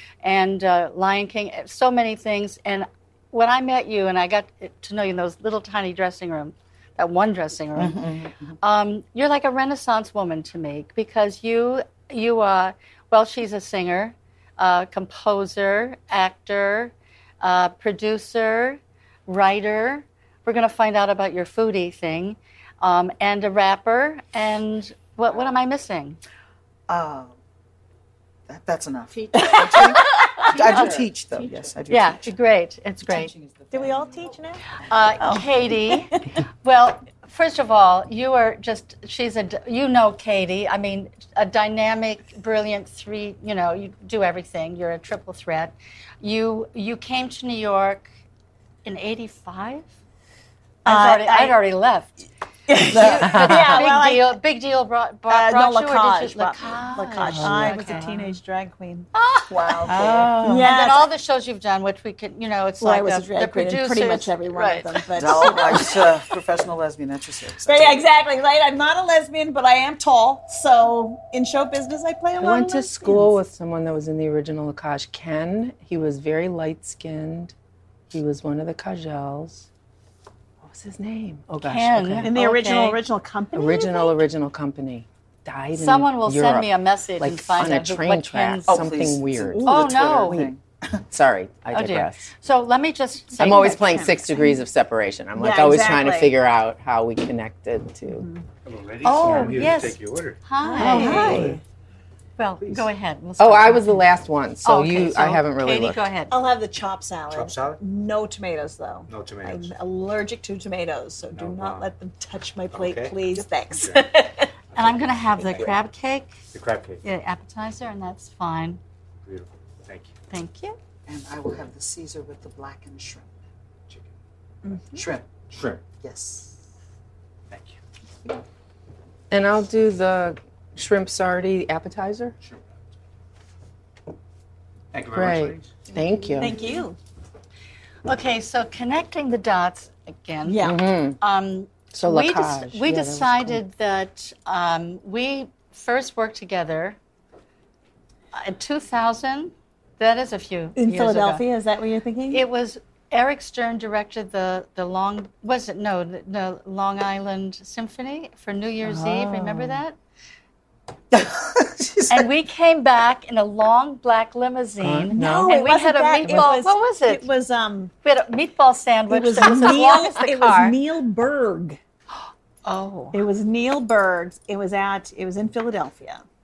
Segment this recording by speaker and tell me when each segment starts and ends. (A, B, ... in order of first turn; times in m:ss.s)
0:00.2-0:08.0 A
0:07.8-0:08.5 B
0:08.6-0:26.2 A
0:26.9-0:27.3 B
0:28.5-0:32.3 B
0:29.1-0:31.7 C
0:29.6-0:30.9 A
0:31.9-0:33.3 A
0:33.1-0:34.2 B
0:33.7-0:34.6 D
0:34.9-0:48.1 A
0:35.2-0:36.3 D
0:48.8-0:49.9 A
0:50.8-0:52.1 A
0:50.8-0:51.6 D
0:52.7-0:54.4 D
0:52.8-0:58.0 A
0:53.2-0:53.9 C
0:55.3-0:59.1 D
0:57.3-0:58.3 C
0:59.1-1:05.9 A
0:59.5-1:00.3 B
0:59.8-1:00.7 C
1:00.4-1:01.1 D
1:02.8-1:06.1 D
1:05.2-1:08.0 B
1:07.7-1:13.3 D
1:12.4-1:17.5 C
1:18.1-1:19.7 C
1:20.6-1:22.3 C
1:21.5-1:23.0 A
1:22.2-1:24.2 D
1:23.5-1:30.5 C
1:25.8-1:28.9 A
1:28.7-1:30.6 B
1:29.6-1:30.4 A
1:31.1-1:32.3 C
1:31.7-1:34.6 A
1:33.4-1:38.3 C
1:35.4-1:36.3 D
1:38.1-1:38.4 D
1:38.7-1:40.4 E
1:39.0-1:41.5 A
1:40.6-1:41.6 D
1:40.8-1:41.6 C
1:42.4-1:44.0 A
1:43.4-1:46.0 C
1:44.6-1:46.3 A
1:46.3-1:54.5 D
1:47.3-1:47.8 E
1:49.1-1:49.7 E
1:51.3-1:51.9 E
1:52.7-1:53.2 E
1:54.8-1:56.3 A
1:55.4-1:55.7 E
1:56.5-1:57.0 E
1:57.0-1:58.8 A
1:59.2-2:00.1 E
2:00.3-2:00.8 A
2:01.1-2:03.3 B
2:04.6-2:05.0 D
2:05.0-2:05.3 B
2:05.5-2:05.8 E
2:06.0-2:06.5 B
2:07.5-2:07.8 E
2:09.3-2:12.3 C
2:14.9-2:15.9 E
2:15.1-2:16.6 C
2:16.4-2:17.0 D
2:18.0-2:20.7 A
2:20.4-2:20.8 D
2:20.6-2:21.2 C
2:21.2-2:27.0 A
2:22.0-2:23.6 C
2:28.3-2:31.4 A
2:30.8-2:32.4 D
2:32.3-2:40.0 A
2:38.8-2:39.8 C
2:41.1-2:42.3 B
2:42.1-2:47.3 A
2:44.8-2:45.6 C
2:45.1-2:47.9 D
2:46.3-2:46.5 C
2:48.0-2:50.8 A
2:49.1-2:51.8 D
2:49.6-2:50.0 C
2:52.6-2:53.2 A
2:53.1-2:56.2 D